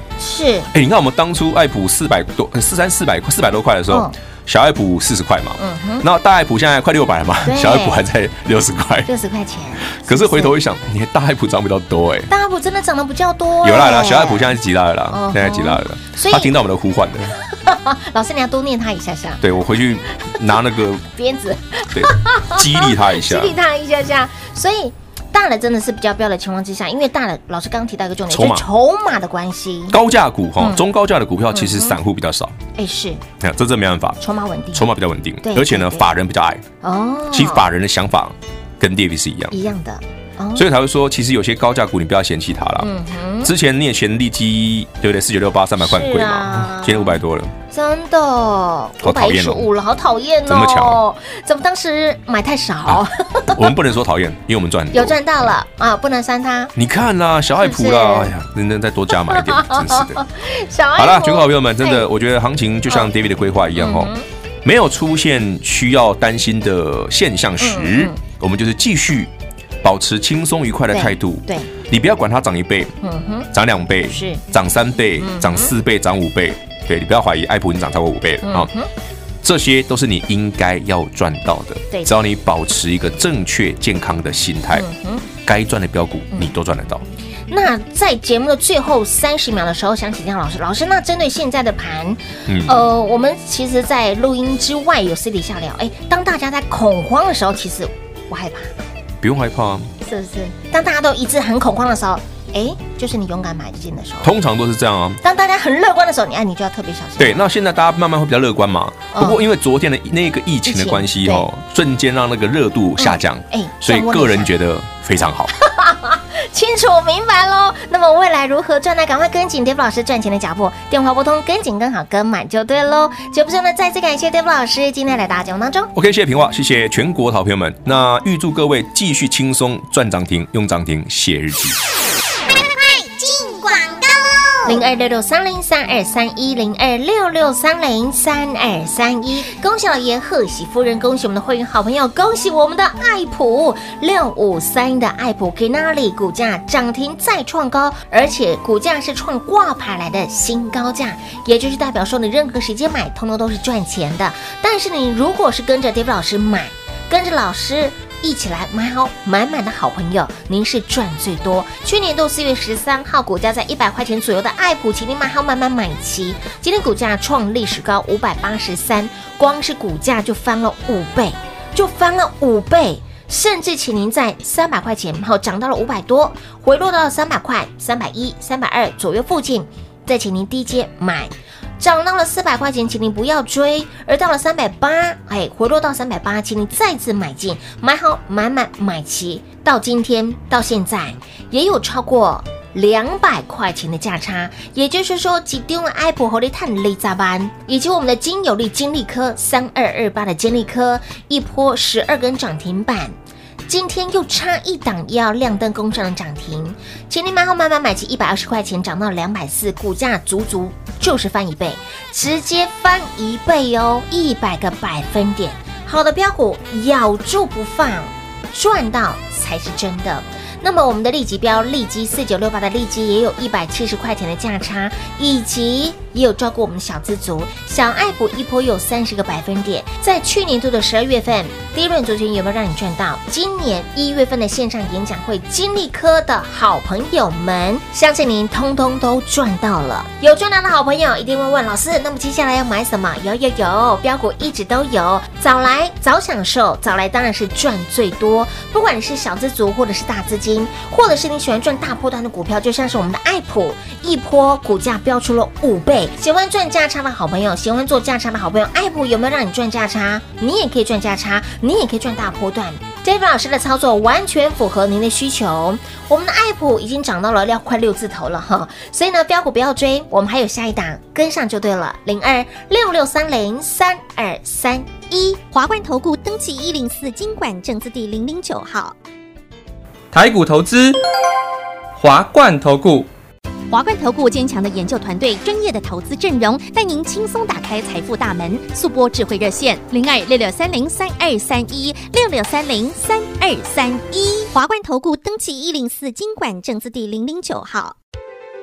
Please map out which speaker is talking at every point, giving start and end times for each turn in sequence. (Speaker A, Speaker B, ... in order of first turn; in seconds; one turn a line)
Speaker A: 0.2-0.7
Speaker B: 0.7-9.1
Speaker A: 3.9-4.1
Speaker A: 5.6-6.0
Speaker A: 7.4-8.0
Speaker A: 9.1-10.5
Speaker B: 9.9-12.3
Speaker A: 12.3-14.6
Speaker B: 13.6-17.3
Speaker A: 15.1-16.5
Speaker A: 17.5-19.4
Speaker B: 19.4-21.1
Speaker A: 21.1-30.0
Speaker B: 21.9-23.6
Speaker B: 28.3-28.7
Speaker B: 29.9-32.5
Speaker A: 30.6-30.8
Speaker A: 31.5-32.0
Speaker A: 32.8-33.2
Speaker B: 33.4-34.2
Speaker A: 34.2-34.9
Speaker B: 34.7-36.6
Speaker A: 35.4-36.1
Speaker A: 36.8-37.6
Speaker B: 37.3-39.6
Speaker A: 39.5-40.7
Speaker B: 40.5-47.5
Speaker A: 42.8-43.5
Speaker A: 45.8-47.2
Speaker A: 47.7-53.7
Speaker B: 49.0-49.7
Speaker B: 50.5-51.0
Speaker B: 52.9-55.5
Speaker A: 54.9-56.7
Speaker B: 56.7-60.2
Speaker A: 57.6-58.3
Speaker A: 59.2-62.1
Speaker B: 60.9-72.9
Speaker A: 63.8-64.2
Speaker A: 67.6-68.2
Speaker A: 70.9-71.7
Speaker A: 73.0-73.5
Speaker B: 73.5-78.7
Speaker A: 74.1-74.4
Speaker A: 75.2-75.7
Speaker A: 78.4-78.9
Speaker B: 79.4-84.9
Speaker A: 84.7-85.2
Speaker B: 85.4-87.0
Speaker A: 87.5-98.7
Speaker B: 92.5-92.8
Speaker B: 99.2-99.9
Speaker A: 100.0-104.3
Speaker B: 104.2-105.2
Speaker A: 105.2-107.5
Speaker B: 107.2-115.5
Speaker A: 109.1-109.4
Speaker A: 110.7-111.5
Speaker A: 113.0-114.5
Speaker A: 115.5-125.9
Speaker B: 125.9-131.8
Speaker C: 132.5-134.8
Speaker A: 134.6-203.1
Speaker A: 203.7-275.4
Speaker D: 275.5-278.9
Speaker E: 280.1-281.0
Speaker E: 281.9-283.1
Speaker D: 283.7-297.9